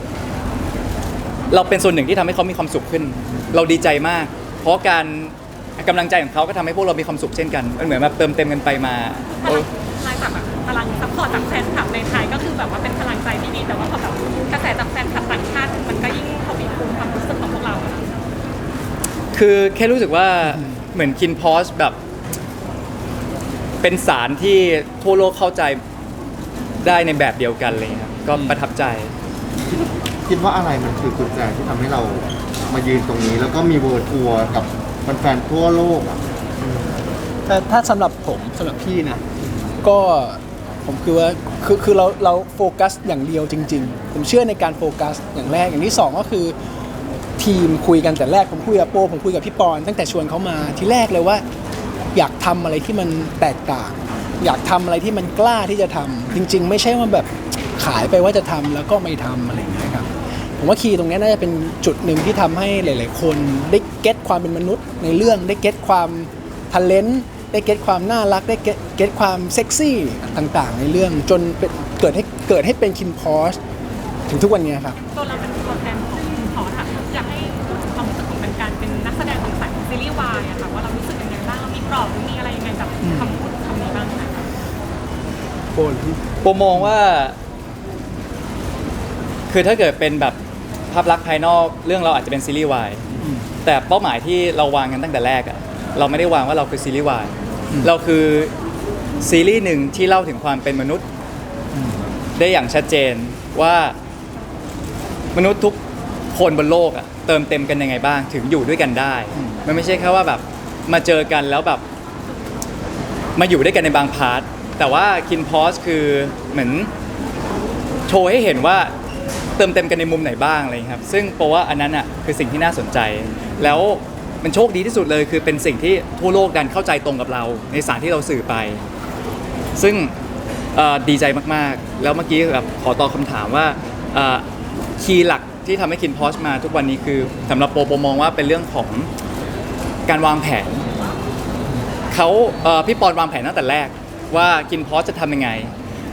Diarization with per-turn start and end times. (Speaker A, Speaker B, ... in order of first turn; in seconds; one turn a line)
Speaker A: 1.5-9.7
Speaker B: 9.3-18.1
Speaker A: 19.3-22.0
Speaker A: 23.8-25.8
Speaker A: 26.8-29.1
Speaker C: 28.3-28.6
Speaker D: 29.7-37.0
Speaker C: 37.5-39.2
Speaker C: 39.8-46.5
Speaker C: 47.4-51.4
Speaker C: 52.1-73.6
Speaker C: 74.3-75.0
Speaker B: 75.1-84.4
Speaker C: 83.0-83.4
Speaker C: 85.7-86.2
Speaker A: 86.4-87.4
Speaker A: 89.5-90.4
Speaker A: 90.9-93.0
Speaker C: 93.2-93.5
Speaker A: 93.6-98.5
Speaker A: 99.2-101.0
Speaker C: 101.7-102.0
Speaker A: 102.4-104.0
Speaker A: 105.3-105.8
Speaker A: 106.3-111.8
Speaker C: 109.3-109.6
Speaker A: 113.4-116.9
Speaker A: 118.1-118.9
Speaker A: 119.6-128.8
Speaker A: 129.8-130.1
Speaker A: 130.7-134.4
Speaker A: 135.0-139.1
Speaker A: 140.1-140.9
Speaker A: 142.1-145.7